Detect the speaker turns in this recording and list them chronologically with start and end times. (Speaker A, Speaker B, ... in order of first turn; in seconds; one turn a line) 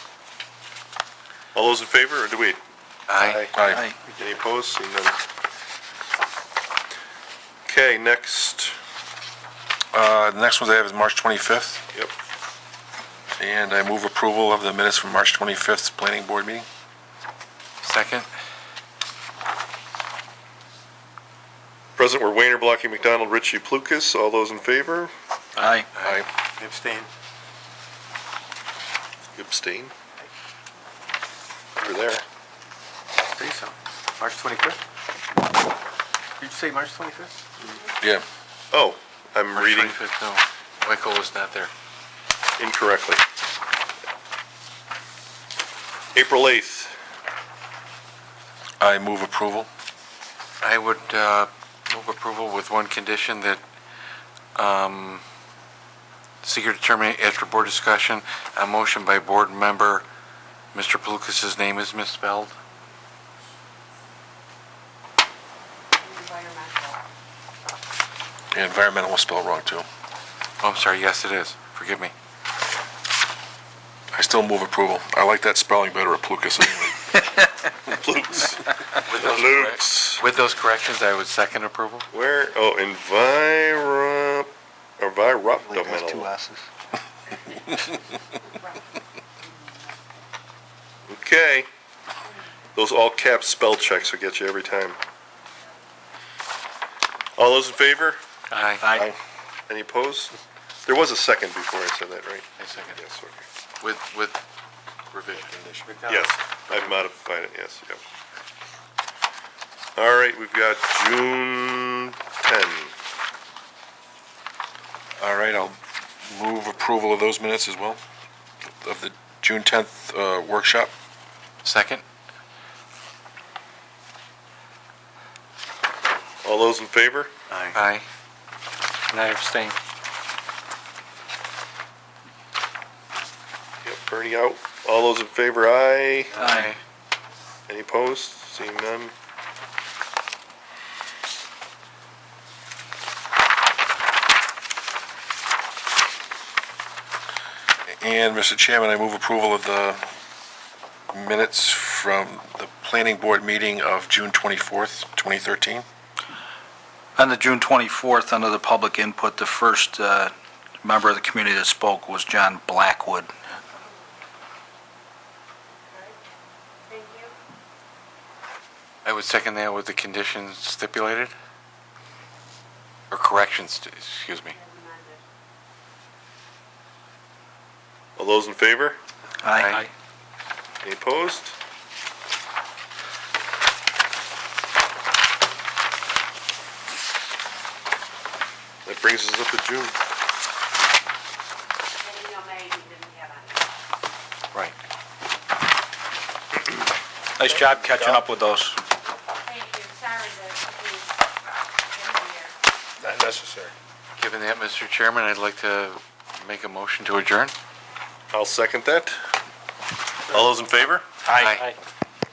Speaker A: 1.5-2.6
Speaker B: 3.1-3.5
Speaker A: 3.2-3.5
Speaker C: 3.5-3.8
Speaker D: 3.7-4.0
Speaker A: 4.1-5.2
Speaker A: 7.7-8.8
Speaker C: 9.9-11.9
Speaker C: 13.4-16.7
Speaker B: 17.8-18.3
Speaker A: 22.0-25.1
Speaker D: 25.6-25.9
Speaker B: 25.6-26.2
Speaker C: 26.0-26.3
Speaker E: 26.6-27.1
Speaker A: 29.4-29.9
Speaker A: 31.8-32.2
Speaker E: 33.3-34.8
Speaker E: 36.4-37.4
Speaker A: 38.7-40.0
Speaker B: 39.5-41.7
Speaker A: 42.6-43.2
Speaker A: 46.1-47.0
Speaker C: 48.8-49.7
Speaker B: 50.6-53.6
Speaker B: 54.5-55.2
Speaker B: 56.4-60.0
Speaker B: 60.7-62.6
Speaker F: 66.0-67.0
Speaker C: 68.5-69.9
Speaker B: 70.6-72.1
Speaker C: 74.1-77.2
Speaker A: 77.8-80.2
Speaker B: 79.0-82.1
Speaker A: 82.1-86.3
Speaker D: 85.7-86.7
Speaker F: 88.4-88.8
Speaker A: 91.1-91.7
Speaker A: 92.8-95.0
Speaker A: 97.4-98.2
Speaker B: 98.5-98.9
Speaker D: 98.8-99.1
Speaker A: 99.7-103.4
Speaker B: 102.6-103.0
Speaker B: 103.8-104.4
Speaker B: 105.1-105.5
Speaker C: 105.4-105.8
Speaker A: 106.1-108.0
Speaker A: 110.0-112.9
Speaker C: 115.2-118.0
Speaker C: 118.8-120.9
Speaker B: 121.6-122.0
Speaker A: 126.4-127.3
Speaker B: 127.7-128.1
Speaker B: 129.1-129.8
Speaker A: 133.8-136.4
Speaker D: 136.3-136.7
Speaker B: 136.4-136.8
Speaker A: 137.7-139.1
Speaker C: 147.9-150.0
Speaker C: 151.1-155.9
Speaker D: 157.2-163.3
Speaker F: 166.9-167.3
Speaker B: 169.0-171.3
Speaker B: 173.1-174.6
Speaker F: 174.6-175.2
Speaker A: 178.2-179.0
Speaker D: 179.4-179.9
Speaker B: 179.5-179.9
Speaker A: 180.8-181.6
Speaker A: 188.8-189.9
Speaker F: 192.0-193.7
Speaker D: 197.4-198.8
Speaker C: 197.9-198.2
Speaker F: 199.4-201.2
Speaker F: 201.9-202.6
Speaker C: 203.0-203.7
Speaker B: 204.2-207.5
Speaker A: 208.3-209.2
Speaker A: 210.3-211.1
Speaker B: 211.3-211.7
Speaker D: 211.3-211.6